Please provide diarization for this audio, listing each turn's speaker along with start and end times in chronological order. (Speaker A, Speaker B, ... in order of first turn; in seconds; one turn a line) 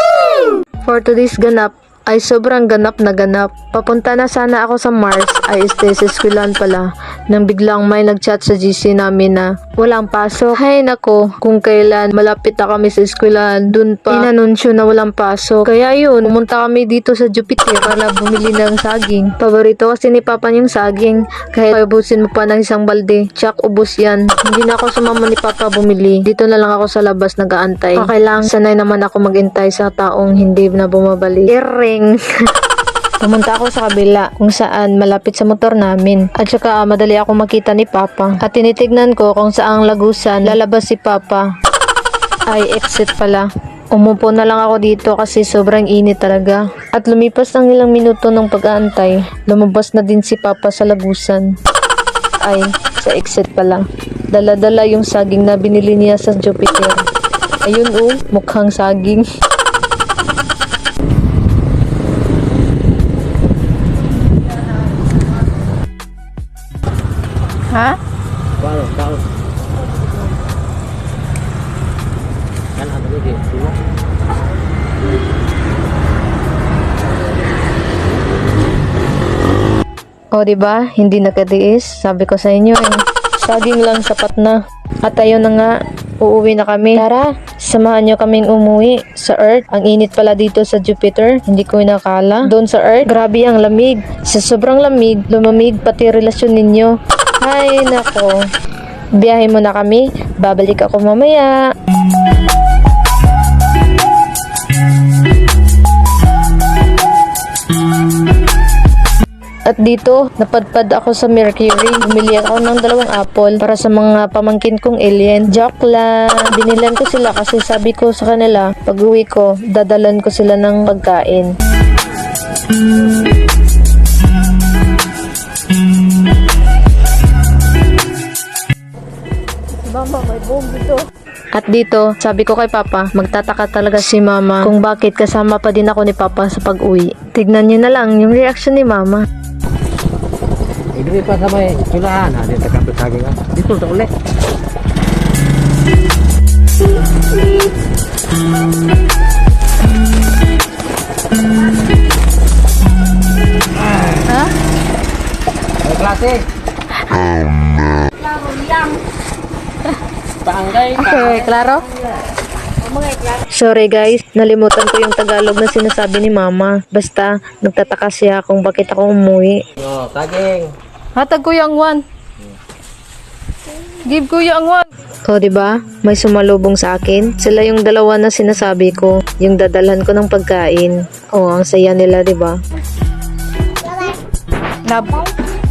Speaker A: 0.2-32.2
Speaker A: 33.2-41.5
Speaker A: 42.5-51.5
Speaker A: 52.4-57.0
Speaker A: 57.7-59.3
Speaker B: 68.6-69.3
Speaker B: 72.8-73.8
Speaker A: 80.3-98.4
Speaker A: 99.2-101.5
Speaker A: 109.7-121.5
Speaker C: 129.8-131.0
Speaker A: 131.5-139.3
Speaker B: 140.9-144.1
Speaker B: 155.8-156.5
Speaker B: 160.4-161.5
Speaker C: 161.0-161.8
Speaker A: 161.2-161.7
Speaker A: 163.5-169.6
Speaker B: 169.8-170.7
Speaker C: 171.2-172.0
Speaker A: 171.2-171.9
Speaker C: 174.1-174.8
Speaker A: 175.3-182.6
Speaker C: 184.9-185.3